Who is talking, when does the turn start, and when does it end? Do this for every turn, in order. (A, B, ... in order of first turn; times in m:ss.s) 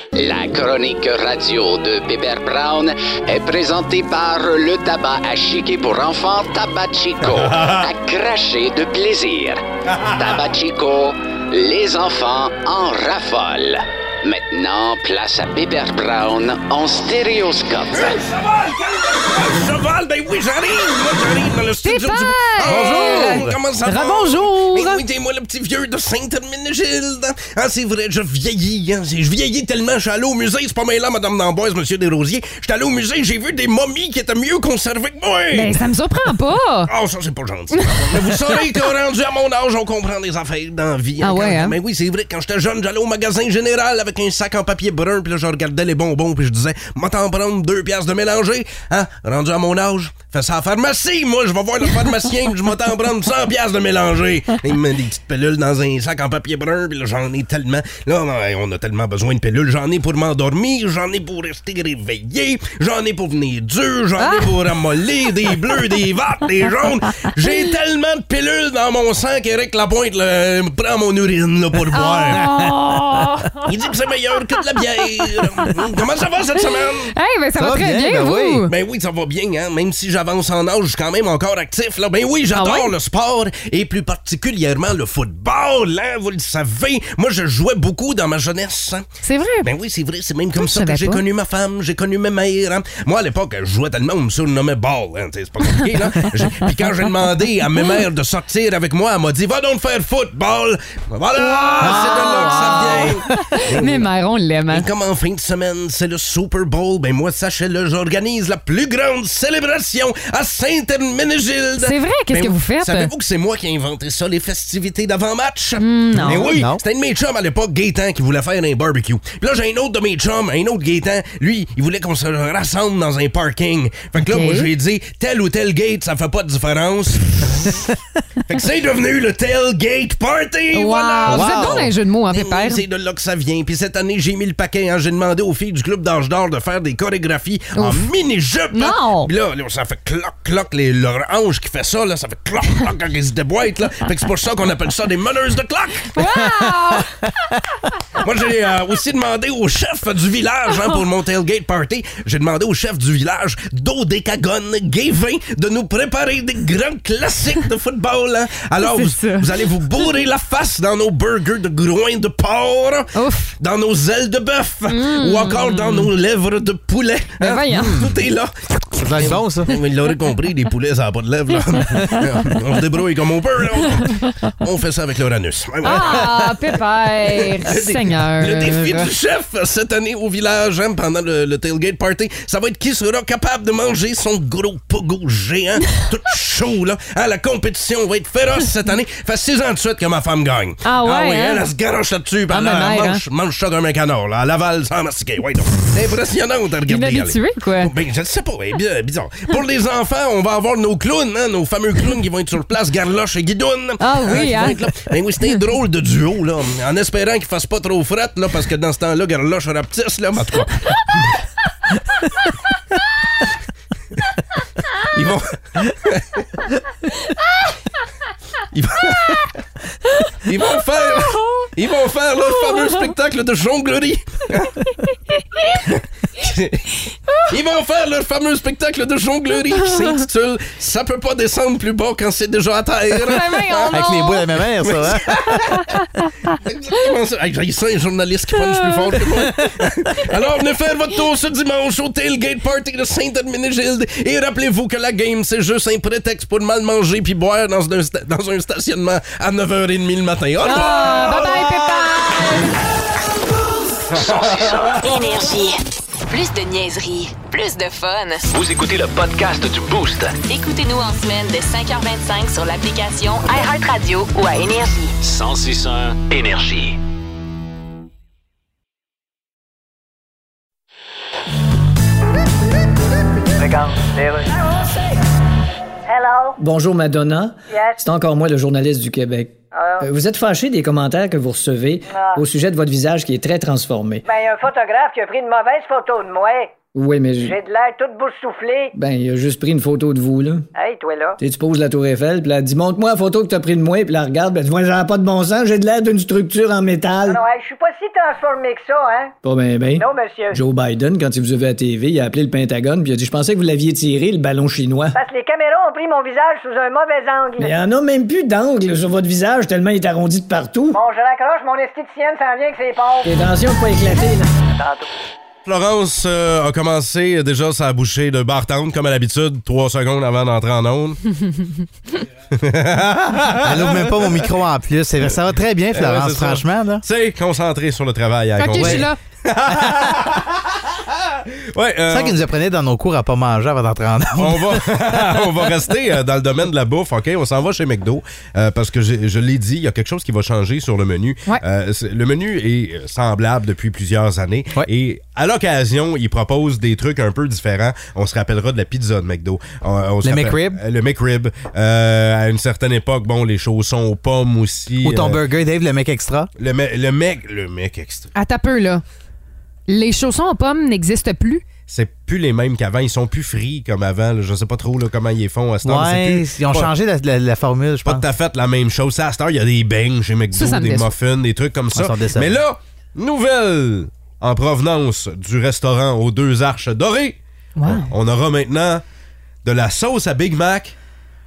0:00.2-0:18.2 A
0:17.9-0:35.8 B
0:21.8-0:25.0 C
0:22.6-0:23.5 D
0:35.5-0:36.9 C
0:36.9-1:12.7 B
0:37.8-0:38.6 C
0:41.2-0:41.8 C
1:04.2-1:04.5 C
1:11.9-1:13.7 C
1:13.6-1:17.1 B
1:16.6-1:18.7 C
1:17.6-1:18.7 D
1:18.7-1:29.1 B
1:22.5-1:22.9 C
1:29.2-1:29.7 C
1:29.6-1:44.1 B
1:30.6-1:31.2 C
1:41.4-1:44.9 C
1:41.8-1:43.1 D
1:44.7-2:07.8 B
1:51.8-1:53.1 C
1:55.8-1:56.5 C
1:56.2-1:56.8 D
2:04.2-2:04.7 C
2:08.5-2:26.6 B
2:10.7-2:12.8 C
2:11.2-2:11.9 D
2:17.8-2:18.1 C
2:18.7-2:19.3 C
2:26.1-2:27.3 C
2:28.2-3:31.4 B
2:38.8-2:39.5 C
2:43.2-2:43.5 C
2:44.9-2:46.1 C
2:47.4-2:48.1 C
2:49.0-2:49.8 D
2:55.8-2:59.1 C
3:10.8-3:11.6 C
3:12.5-3:13.2 C
3:16.9-3:17.9 C
3:24.0-3:24.8 C
3:35.1-3:36.5 B
3:38.7-3:39.5 B
3:40.4-3:44.9 B
3:45.7-3:47.0 B
3:47.5-3:54.2 B
3:53.2-3:54.5 C
3:53.9-3:55.6 D
3:54.8-3:55.9 B
3:56.5-4:12.1 B
3:58.7-3:59.0 C
4:10.6-4:12.8 C
4:14.2-4:15.0 E
4:15.0-4:15.8 F
4:16.3-4:18.5 F
4:18.5-4:20.4 E
4:20.4-4:25.2 F
4:25.2-4:27.0 E
4:33.6-4:34.9 G
4:36.1-4:36.6 G
4:36.6-4:44.2 H
4:37.7-4:38.1 G
4:39.7-4:40.1 G
4:42.1-4:42.4 G
4:44.2-4:46.8 G
4:46.9-4:47.6 H
4:47.4-4:49.0 G
4:49.0-4:50.7 H
4:50.7-4:51.4 G
4:51.4-4:57.4 H
4:57.2-4:59.4 G
4:59.4-5:05.2 H
5:00.0-5:00.6 G
5:05.1-5:07.8 G
5:07.6-5:11.0 H
5:10.9-5:15.1 G
5:13.2-5:14.5 H
5:15.7-5:21.2 B
5:22.5-5:24.5 B
5:23.6-5:27.0 D
5:25.9-5:30.6 B
5:28.6-5:29.2 C
5:28.7-5:29.1 D
5:29.7-5:30.0 D
5:31.3-5:32.4 B
5:32.1-5:35.0 D
5:34.4-5:55.4 B
5:50.2-5:50.8 D
5:55.0-5:56.5 D
5:56.6-5:58.3 B
5:58.4-5:59.0 C
5:59.9-6:01.6 C
6:01.9-6:06.9 B
6:05.8-6:08.3 D
6:08.0-6:19.0 B
6:10.5-6:11.1 C
6:11.9-6:12.6 D
6:17.8-6:18.1 C
6:19.6-6:21.0 B